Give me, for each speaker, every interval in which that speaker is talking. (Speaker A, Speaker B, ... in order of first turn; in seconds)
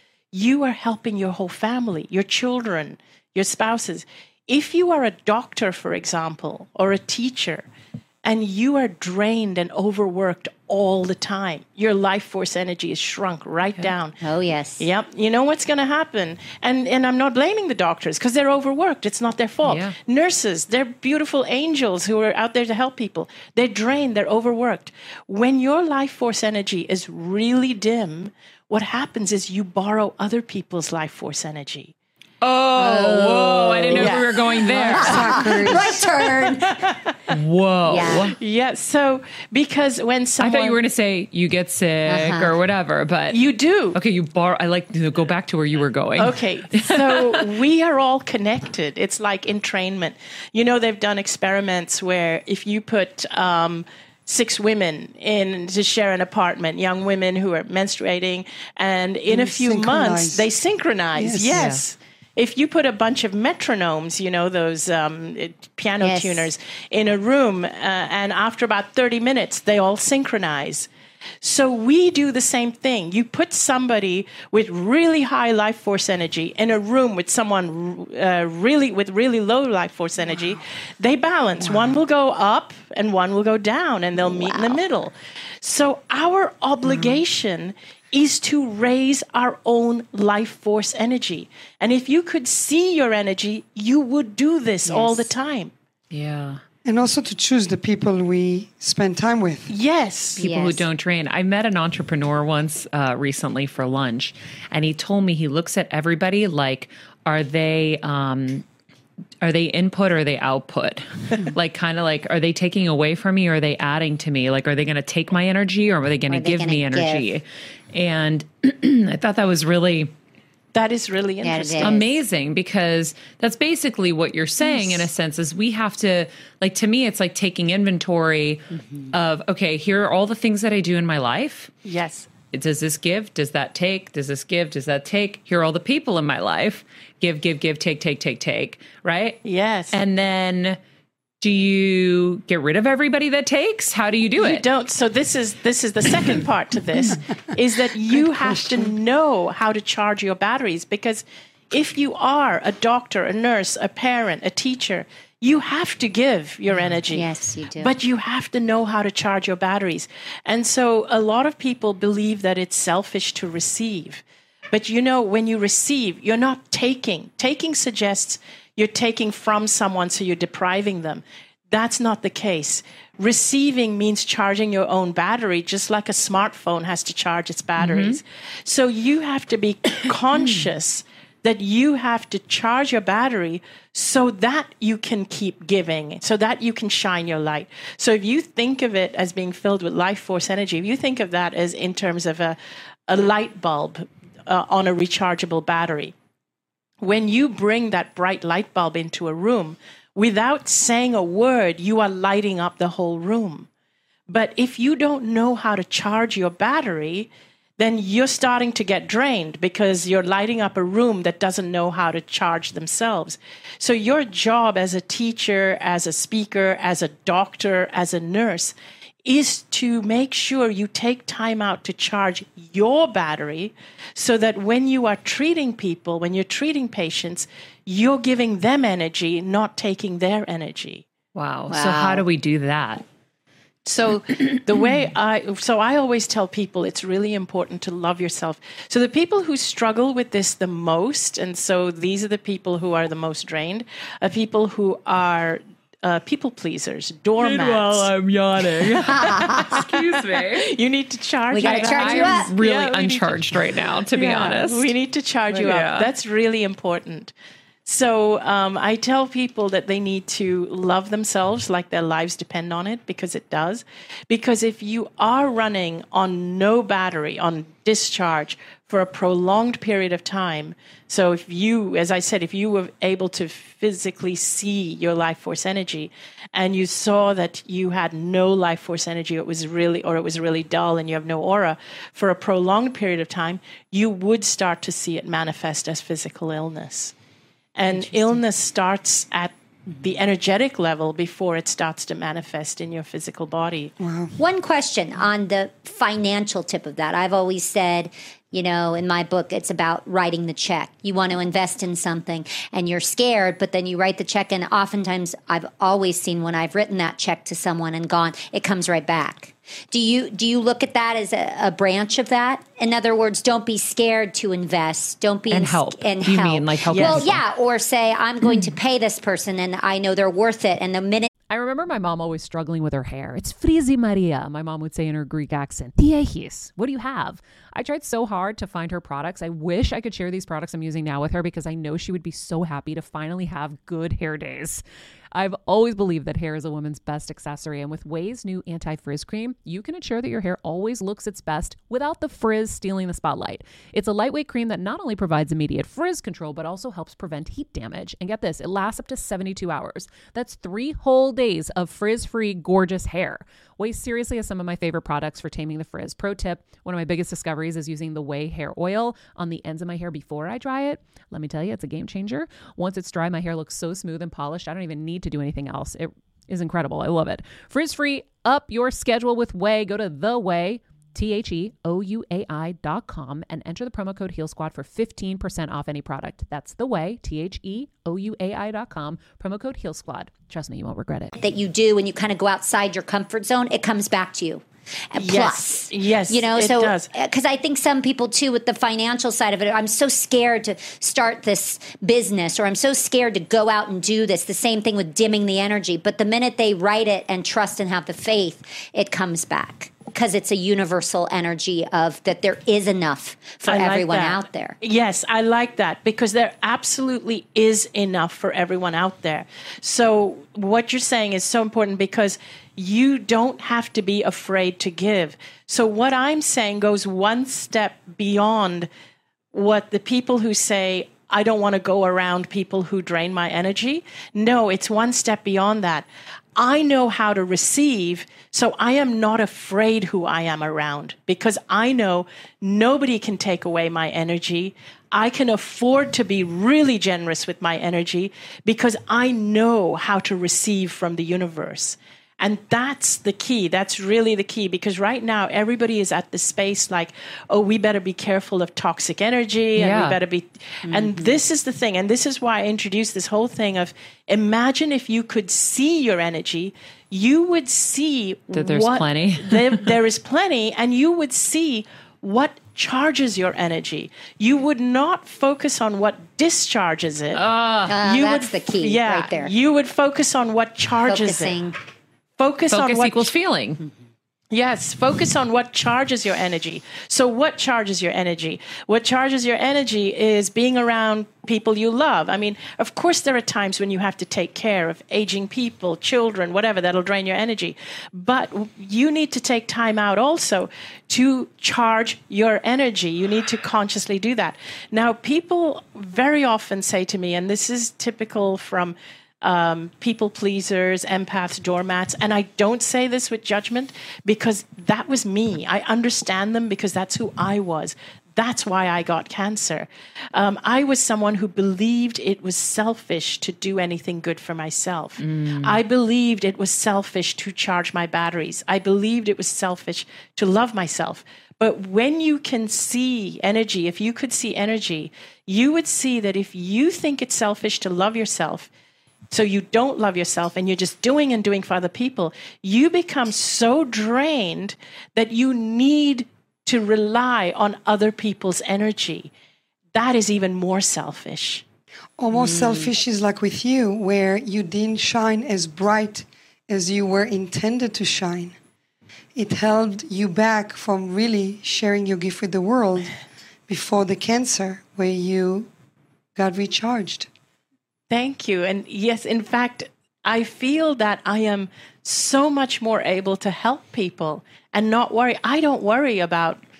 Speaker A: 0.3-7.7, 8.2-14.2, 14.8-31.9, 33.9-35.2, 36.7-37.1, 38.0-40.8, 43.3-44.0, 46.2-70.9, 71.4-95.7, 99.7-100.4, 120.7-122.0, 124.7-125.0, 131.8-132.3, 139.4-140.0, 144.4-192.6, 193.1-196.1, 197.0-203.7, 204.3-231.1, 233.9-257.3, 257.9-287.1, 287.8-293.9, 316.9-317.2, 385.1-387.1, 403.6-418.9, 419.5-467.4, 468.0-471.6, 472.4-473.3, 474.5-528.7, 529.3-539.3, 539.9-541.6, 558.1-566.6
Speaker B: 14.2-14.9, 32.8-37.0, 37.9-38.3, 42.1-42.5, 66.0-66.5, 84.2-84.8, 94.9-95.3, 100.4-100.9, 116.3-117.3, 121.4-122.0, 128.8-129.1, 157.1-157.9, 231.7-232.2, 249.1-249.8, 251.5-252.5, 294.4-321.3, 381.4-404.8, 450.9-451.4, 467.9-469.5, 471.1-471.8, 542.3-542.9
Speaker C: 19.6-20.0, 32.4-35.5, 37.3-38.4, 40.4-43.4, 44.0-47.4, 61.5-61.8, 96.1-96.6, 100.4-108.7, 109.4-120.1, 121.8-131.7, 132.5-139.4, 139.9-140.8, 141.4-144.7, 177.8-178.2, 231.3-233.0, 234.3-234.8, 247.4-250.7, 251.6-254.9, 255.5-256.1, 315.5-317.4, 449.8-450.2, 458.5-459.9, 467.3-468.0, 472.7-473.8, 515.2-515.8
Speaker D: 35.0-36.0, 59.3-60.5, 61.1-61.6, 96.8-99.7, 148.1-148.9, 294.0-294.4, 542.2-548.5, 549.4-553.1, 553.7-555.7, 556.4-557.3
Speaker E: 321.5-334.8, 335.3-381.3